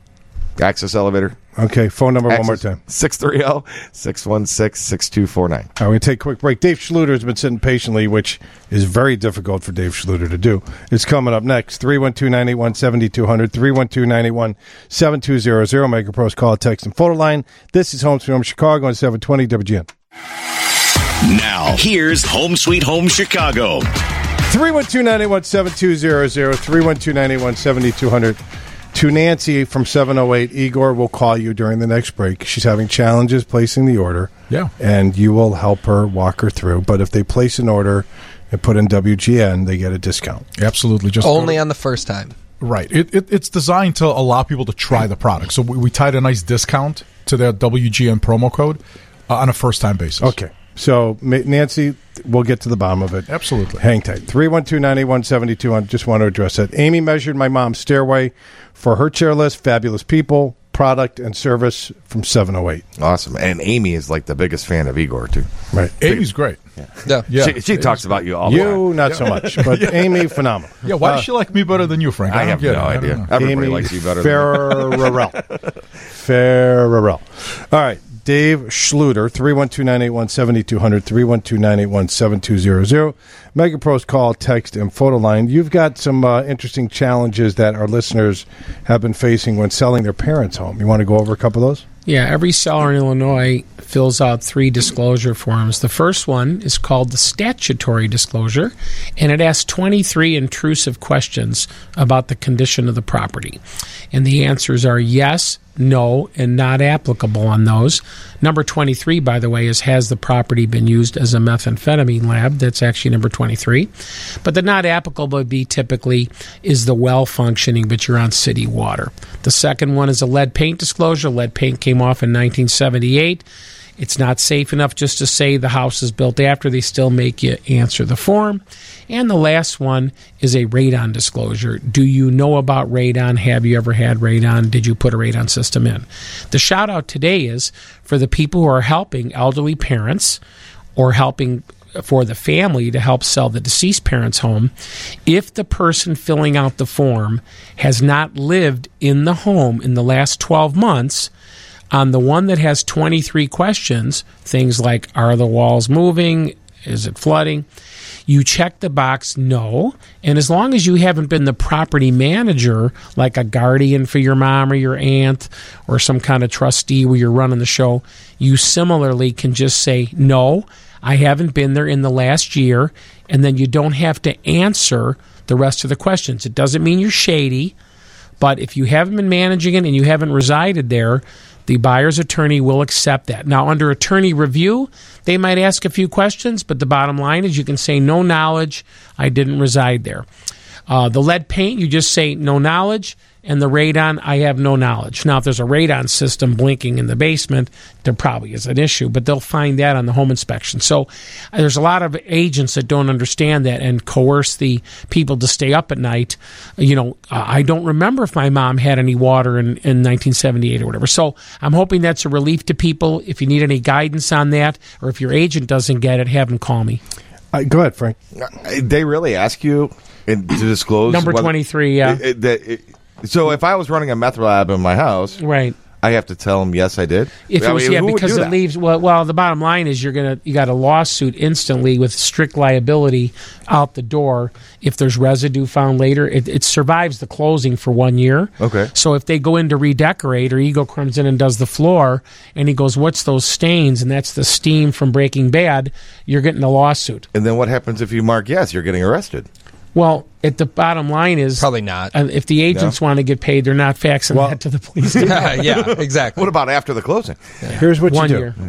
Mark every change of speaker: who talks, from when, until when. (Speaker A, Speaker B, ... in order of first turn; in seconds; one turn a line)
Speaker A: 0.6-1.4
Speaker B: 1.6-2.8
Speaker A: 2.3-5.7
Speaker B: 5.8-19.9
Speaker C: 21.2-23.9
Speaker B: 24.5-28.4
Speaker B: 28.9-40.5
Speaker D: 40.6-41.6
Speaker E: 41.2-42.4
Speaker D: 42.6-50.3
Speaker B: 50.2-62.9
Speaker D: 53.3-53.8
Speaker A: 63.0-65.5
Speaker D: 66.0-66.6
Speaker A: 66.8-69.0
Speaker D: 67.3-70.3
Speaker B: 68.4-71.3
Speaker D: 70.8-73.3
Speaker A: 72.3-75.3
Speaker B: 73.3-75.4
Speaker B: 76.1-91.9
Speaker F: 92.1-103.6
Speaker F: 104.1-113.9
Speaker F: 114.4-123.5
Speaker F: 124.0-140.4
Speaker F: 141.0-144.7
Speaker F: 145.3-151.3
Speaker F: 151.9-157.7
Speaker F: 158.3-177.7
Speaker F: 178.4-190.3
Speaker F: 190.9-217.0
Speaker B: 217.5-218.2
Speaker A: 218.4-225.4
Speaker F: 221.1-222.2
Speaker F: 225.4-225.8
Speaker A: 226.0-228.6
Speaker F: 227.5-247.3
Speaker A: 238.6-238.9
Speaker A: 247.3-249.5
Speaker F: 249.9-255.4
Speaker E: 251.6-252.1
Speaker A: 252.7-253.0
Speaker B: 254.3-254.6
Speaker A: 255.2-257.6
Speaker E: 255.2-256.5
Speaker B: 257.7-258.5
Speaker F: 258.0-258.5